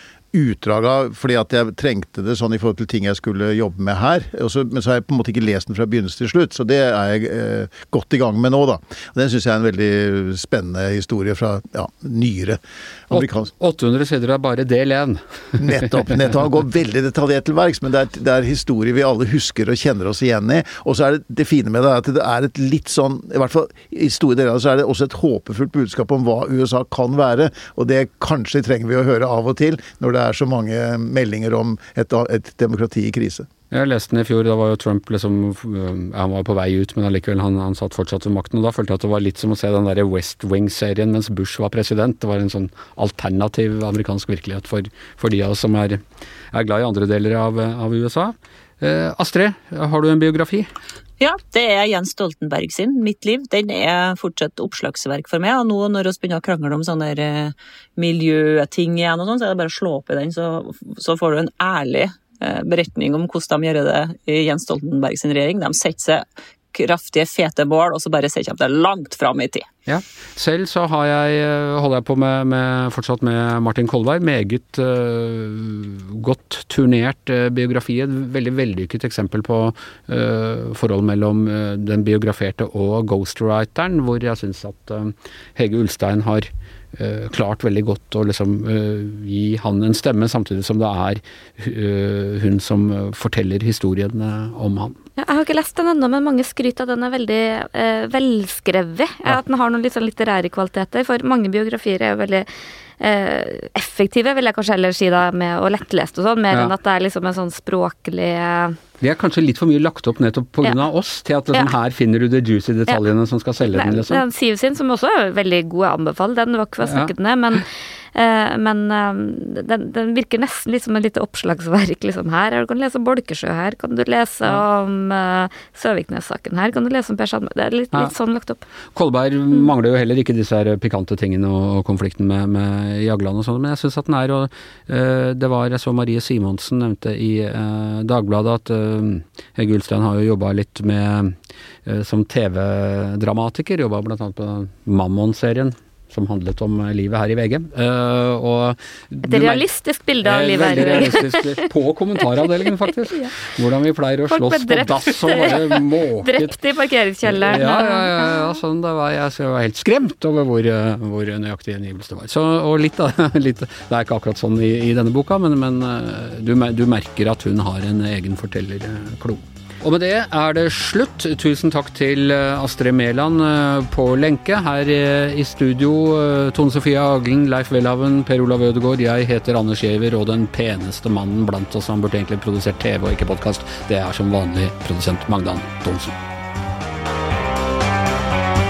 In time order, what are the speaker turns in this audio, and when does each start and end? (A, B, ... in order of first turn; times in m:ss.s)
0:00.3-0:13.5 A
0:13.1-0:16.1 B
0:15.6-0:33.5 A
0:33.7-0:46.0 B
0:46.5-0:50.7 B
0:51.2-1:09.6 C
1:09.9-1:35.0 B
1:35.2-1:42.4 D
1:43.0-1:48.8 D
1:49.0-1:54.2 B
1:53.7-2:08.6 D
2:08.9-2:21.3 B
2:21.8-2:29.6 B
2:29.2-2:31.6 D
2:30.2-2:36.5 B
2:34.3-2:38.6 D
2:37.2-3:06.2 B